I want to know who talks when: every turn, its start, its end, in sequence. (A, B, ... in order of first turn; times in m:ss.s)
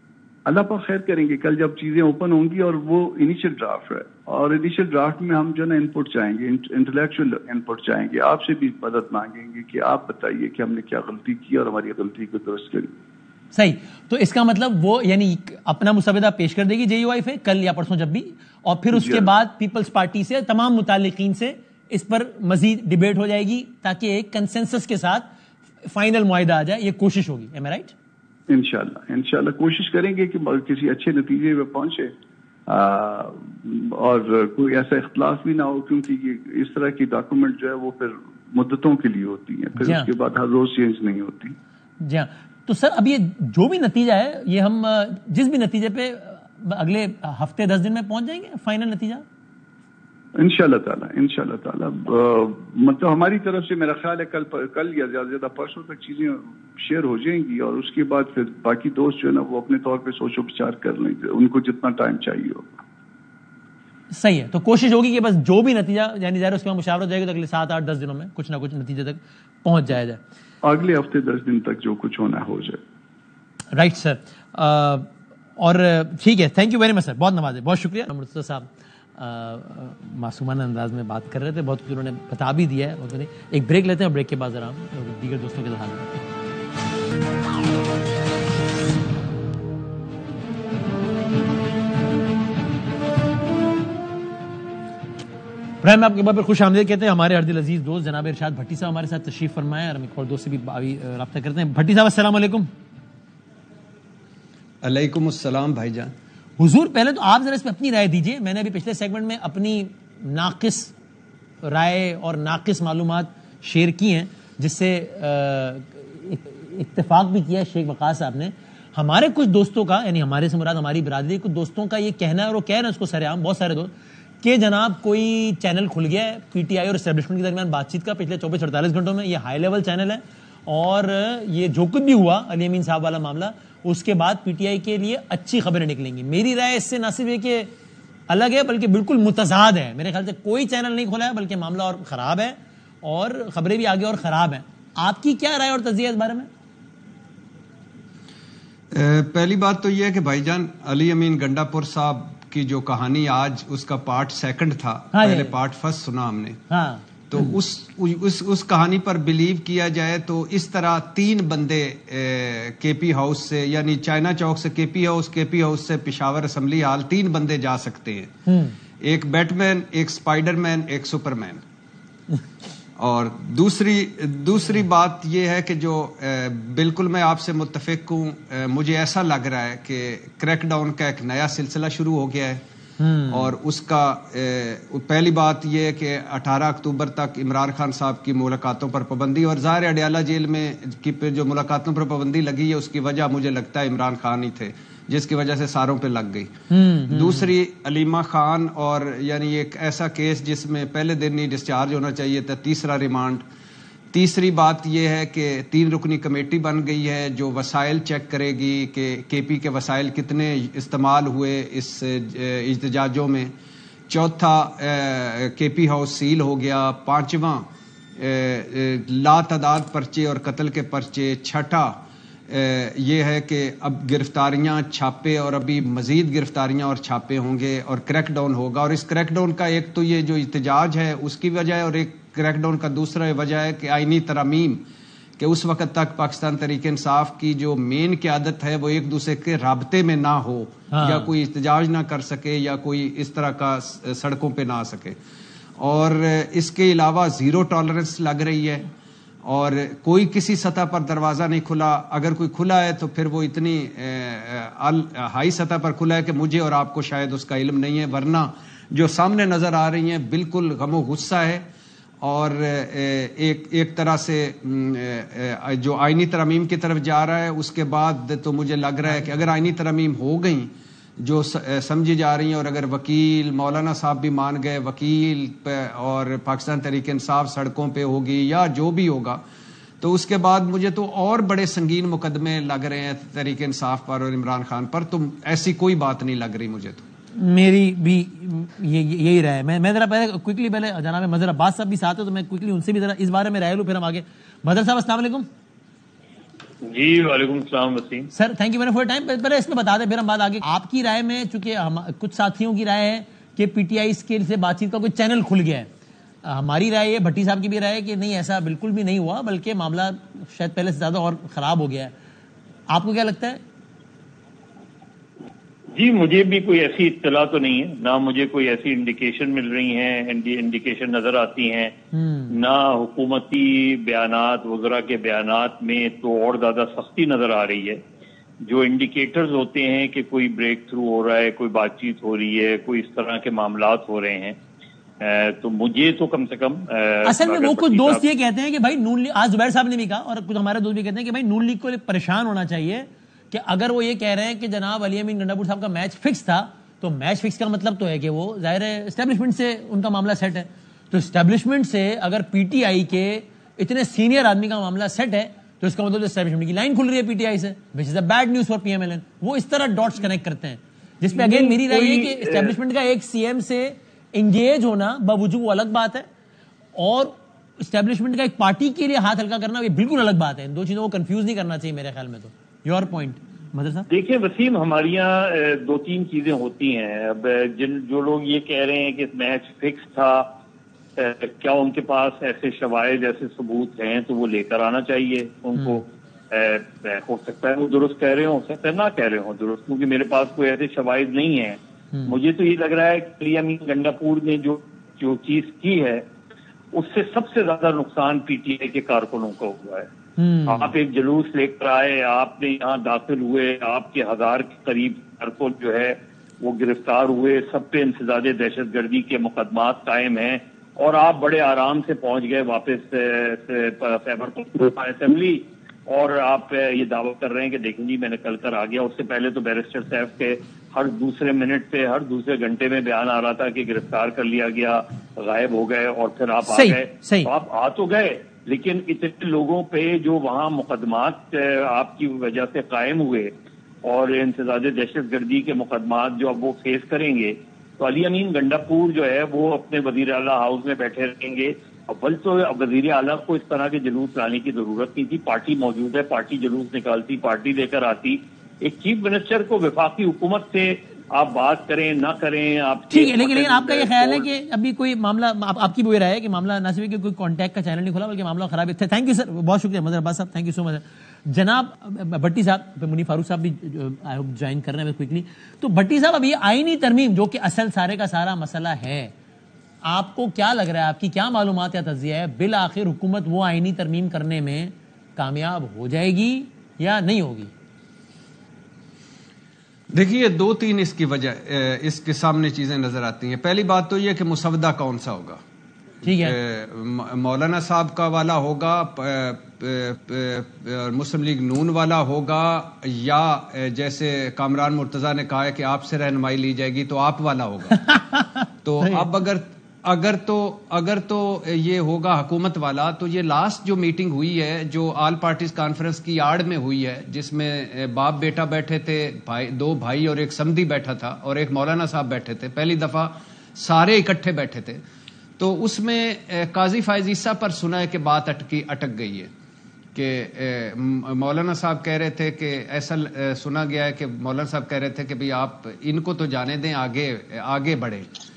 0:00.4-0:12.9 A
0:13.5-0:25.3 B
0:18.9-0:19.3 A
0:25.8-0:27.9 B
0:28.5-0:32.1 A
0:32.7-0:41.6 A
0:39.8-0:40.1 B
0:42.0-0:49.2 B
0:50.4-1:02.8 A
1:04.1-1:10.2 B
1:10.6-1:12.8 A
1:13.7-1:26.2 B
1:35.8-1:42.7 B
1:44.8-1:46.1 C
1:46.6-1:50.9 B
1:51.6-2:17.7 B
2:18.3-2:26.5 B
2:28.9-2:36.6 C
2:35.1-2:35.6 B
2:36.7-2:37.5 B
2:37.3-2:48.4 C
2:48.5-2:48.8 B
2:49.0-2:51.6 C
2:53.0-3:02.6 C
3:03.0-3:03.5 B
3:03.3-3:16.6 C
3:16.7-3:17.5 B
3:17.1-3:23.4 C
3:24.1-3:33.5 C
3:34.1-3:54.8 C
3:55.4-4:05.2 C
4:00.9-4:01.3 B
4:05.8-4:08.9 C
4:09.4-4:21.7 C
4:22.2-4:39.4 C
4:29.0-4:29.4 B
4:40.0-4:47.0 C
4:47.3-4:55.5 B
4:56.8-4:58.3 D
4:58.3-5:05.9 B
5:06.4-5:12.1 B
5:12.9-5:13.6 B
5:15.9-5:21.9 D
5:22.1-5:22.5 B
5:22.5-5:28.0 D
5:28.6-5:34.6 D
5:35.2-5:38.2 D
5:37.2-6:06.3 B
6:01.3-6:02.8 D
6:07.0-6:14.0 B
6:14.1-6:20.5 D
6:21.2-6:36.2 D
6:25.8-6:26.0 B
6:36.9-6:40.1 D
6:40.4-6:40.9 B
6:40.6-7:13.5 D
7:06.6-7:07.5 B
7:14.0-7:34.5 D
7:33.1-7:49.3 B
7:50.0-7:57.7 B
8:00.1-8:05.6 C
8:06.2-8:06.6 B
8:06.2-8:18.2 C
8:18.1-8:19.2 B
8:18.8-8:35.0 C
8:35.6-8:39.5 C
8:40.1-8:48.3 C